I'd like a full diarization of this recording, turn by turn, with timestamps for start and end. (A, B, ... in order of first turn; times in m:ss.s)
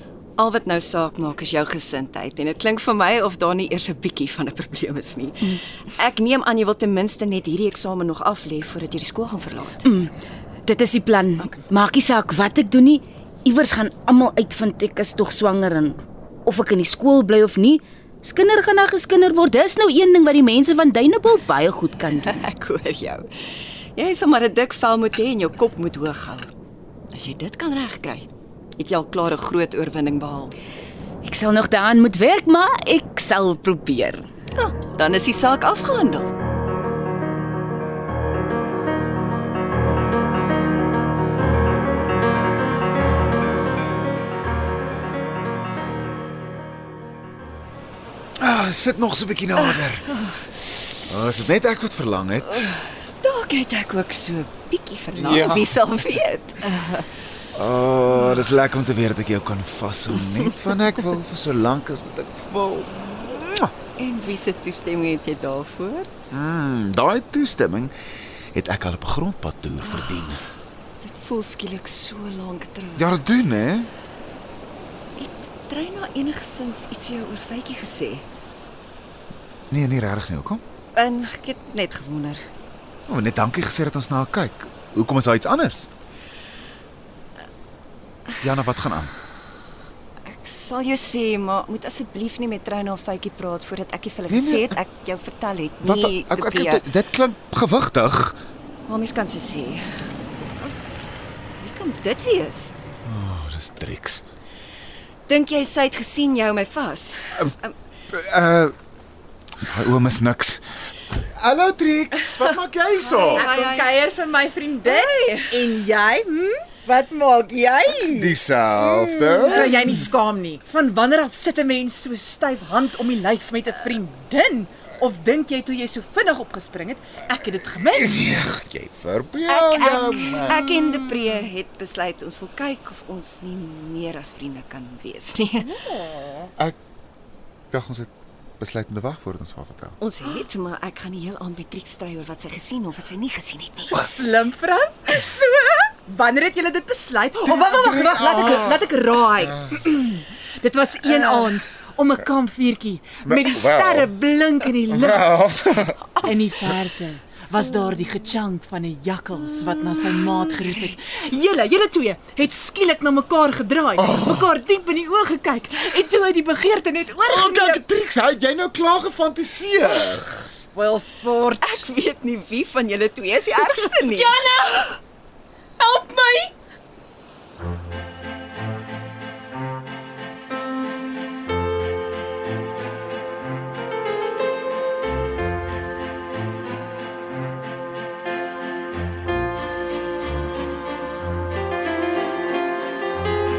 0:00.4-0:09.9 A
0:09.8-0:10.1 B
0:10.6-0:22.3 B
0:22.2-0:26.5 A
0:27.1-0:30.5 A
0:31.2-0:34.3 B
0:34.6-0:36.3 A
0:48.4-0:50.0 C
0:49.6-0:50.4 A
0:51.1-0:52.8 C
0:52.4-0:57.1 A
0:55.1-0:55.8 C
0:57.5-1:03.7 C
1:04.0-1:06.1 A
1:06.3-1:07.9 C
1:08.5-1:10.4 C
1:11.0-1:13.2 A
1:13.0-1:13.9 C
1:15.2-1:18.2 A
1:19.7-1:20.6 C
1:20.9-1:22.5 A
1:23.1-1:25.9 C
1:28.4-1:29.1 C
1:30.2-1:36.9 A
1:34.3-1:34.8 C
1:35.8-1:38.4 C
1:38.9-1:40.8 A
1:41.6-1:42.7 A
1:43.0-1:44.2 C
1:45.3-1:47.7 A
1:48.1-1:48.7 C
1:49.6-1:53.5 C
1:52.9-1:54.0 A
1:53.3-1:58.4 D
1:54.8-1:55.6 A
1:58.0-2:00.1 C
1:59.3-2:08.2 D
2:07.8-2:10.6 C
2:09.5-2:15.7 A
2:17.7-2:20.0 C
2:20.0-2:24.0 A
2:23.9-2:35.4 D
2:27.5-2:28.9 C
2:33.2-2:34.1 C
2:35.0-2:36.2 C
2:36.2-2:47.8 D
2:40.0-2:41.2 A
2:44.0-2:44.5 C
2:47.2-2:50.5 C
2:50.5-2:51.8 D
2:51.6-2:54.4 A
2:54.1-2:55.0 B
2:55.8-2:56.5 B